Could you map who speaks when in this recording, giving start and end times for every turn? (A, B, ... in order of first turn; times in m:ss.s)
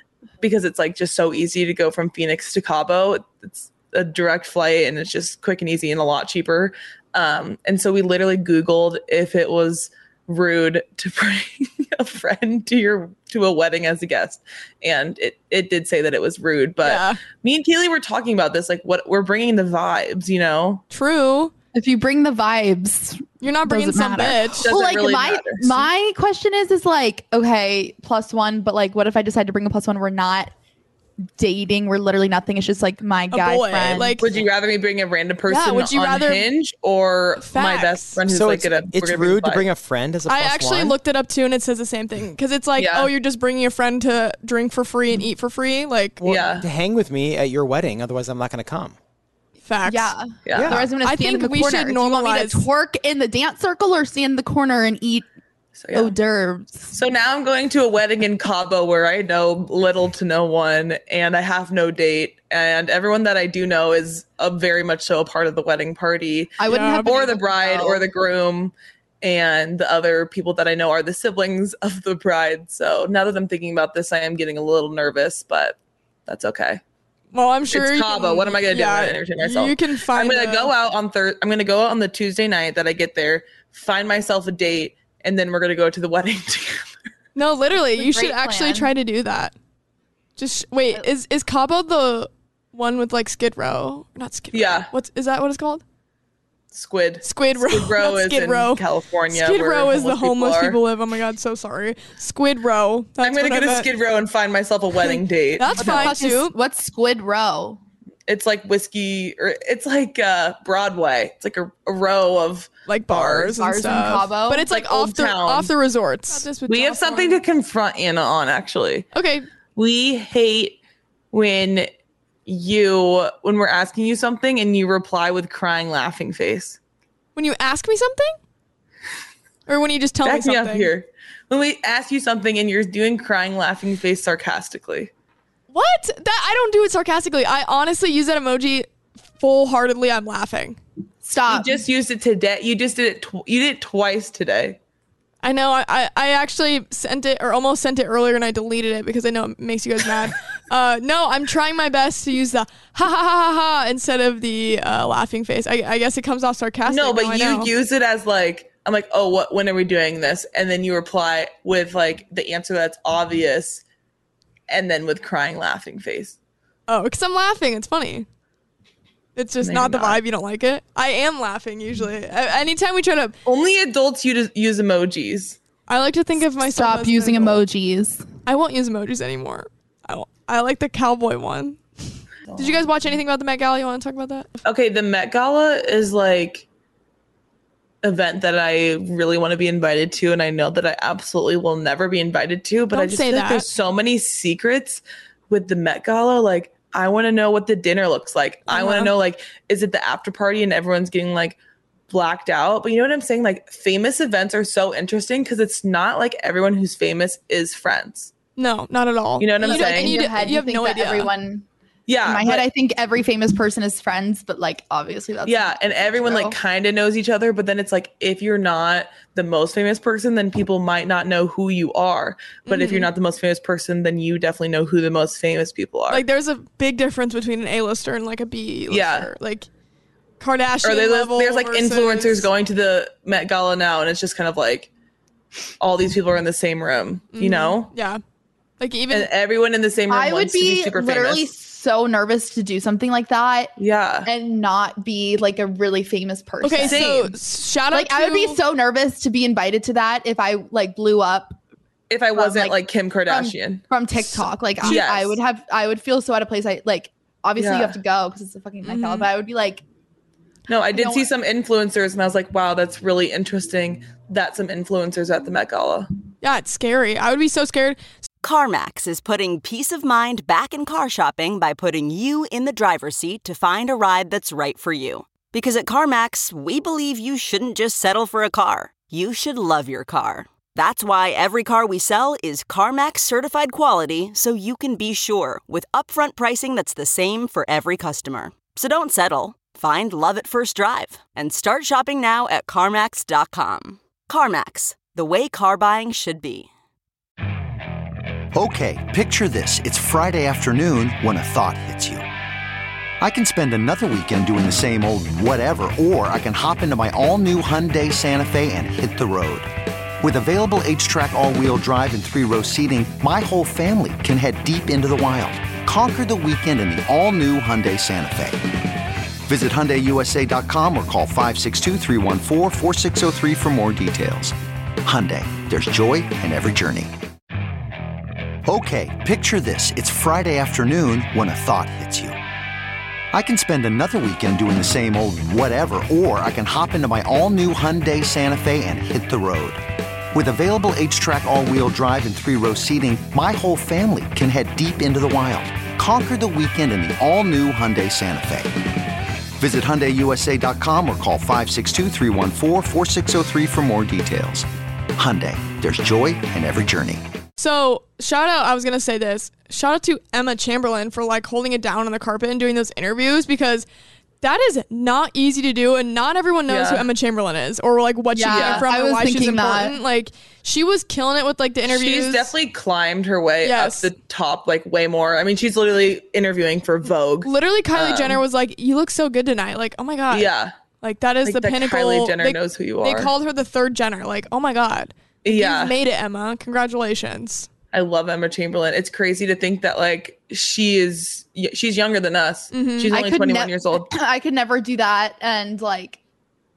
0:00.4-0:20.8 A
0:16.8-0:17.2 B
0:20.9-0:21.5 B
0:21.7-0:30.5 C
0:23.4-0:24.6 B
0:24.6-0:25.9 A
0:31.4-0:34.2 C
0:33.3-0:34.3 B
0:34.0-0:39.7 A
0:35.5-0:36.5 B
0:37.4-0:38.2 B
0:38.3-0:41.0 D
0:40.2-0:46.2 B
0:42.8-0:43.1 A
0:46.2-0:49.0 D
0:46.2-0:46.7 A
0:49.6-0:50.1 B
0:49.8-0:55.3 C
0:50.4-0:50.9 A
0:50.5-0:50.9 D
0:50.9-0:52.7 B
0:55.8-0:56.2 A
0:55.9-0:56.9 C
0:56.9-1:16.8 A
1:06.6-1:08.0 C
1:06.7-1:07.1 B
1:17.3-1:20.7 B
1:17.7-1:26.8 A
1:27.4-1:29.5 B
1:27.9-1:28.9 C
1:30.4-1:35.8 B
1:34.5-1:34.9 A
1:36.7-1:40.8 A
1:37.2-1:43.9 B
1:43.2-1:46.1 A
1:45.0-1:46.6 B
1:45.7-1:47.8 C
1:48.3-1:53.5 A
1:52.9-1:57.4 B
1:53.4-1:54.7 C
1:54.7-1:55.7 A
1:56.4-1:59.1 A
1:59.1-1:59.4 B
1:59.8-2:00.8 A
2:01.3-2:01.9 A
2:02.5-2:06.8 A
2:07.4-2:08.4 B
2:09.7-2:10.9 B
2:10.2-2:15.1 A
2:15.7-2:20.8 B
2:21.2-2:21.7 C
2:21.5-2:24.8 A
2:25.4-2:37.7 B
2:36.9-2:43.8 A
2:44.7-2:46.4 A
2:46.9-2:48.2 B
2:49.4-2:53.4 B
2:49.6-2:50.2 A
2:53.5-2:55.6 A
2:55.9-2:57.6 B
2:56.6-2:58.2 C
2:58.4-3:04.5 B
3:02.5-3:02.8 A
3:04.6-3:06.7 A
3:08.0-3:21.6 A
3:12.9-3:13.7 B
3:18.7-3:19.1 B
3:22.1-3:28.3 A
3:28.6-3:31.3 B
3:29.4-3:30.2 A
3:29.6-3:31.6 C
3:32.1-3:32.7 A
3:32.3-3:36.6 C
3:35.4-3:46.2 A
3:42.6-3:43.1 B
3:46.1-3:49.7 B
3:48.9-3:49.3 A
3:50.4-3:52.5 B
3:50.8-3:54.9 A
3:55.8-3:57.9 A
3:57.3-3:58.2 B
3:58.8-3:59.3 B
3:59.1-4:01.5 A
4:00.1-4:03.7 C
4:03.8-4:04.3 A
4:04.3-4:07.0 C
4:06.6-4:08.6 B
4:06.8-4:07.4 A
4:07.9-4:11.6 C
4:12.1-4:13.8 A
4:12.4-4:19.8 C
4:14.8-4:15.4 A
4:17.6-4:18.0 A
4:18.8-4:19.3 B
4:20.7-4:26.1 A
4:20.9-4:21.3 C
4:26.4-4:28.0 B
4:28.4-4:56.7 E
4:58.5-5:02.2 F
5:03.2-5:09.7 F
5:10.2-5:18.6 F
5:19.5-5:27.1 F
5:28.7-5:32.4 F
5:33.3-5:39.8 F
5:40.3-5:48.7 F
5:49.6-5:57.2 F
5:57.6-6:03.8 B
6:04.4-6:12.5 B
6:06.7-6:07.1 A
6:08.3-6:10.0 C
6:08.4-6:08.8 A
6:11.8-6:18.4 A
6:13.6-6:14.1 B
6:17.4-6:27.7 B
6:20.3-6:20.8 A
6:21.4-6:23.3 A
6:25.4-6:26.0 A
6:27.9-6:34.0 A
6:32.7-6:33.1 B
6:33.1-6:36.2 C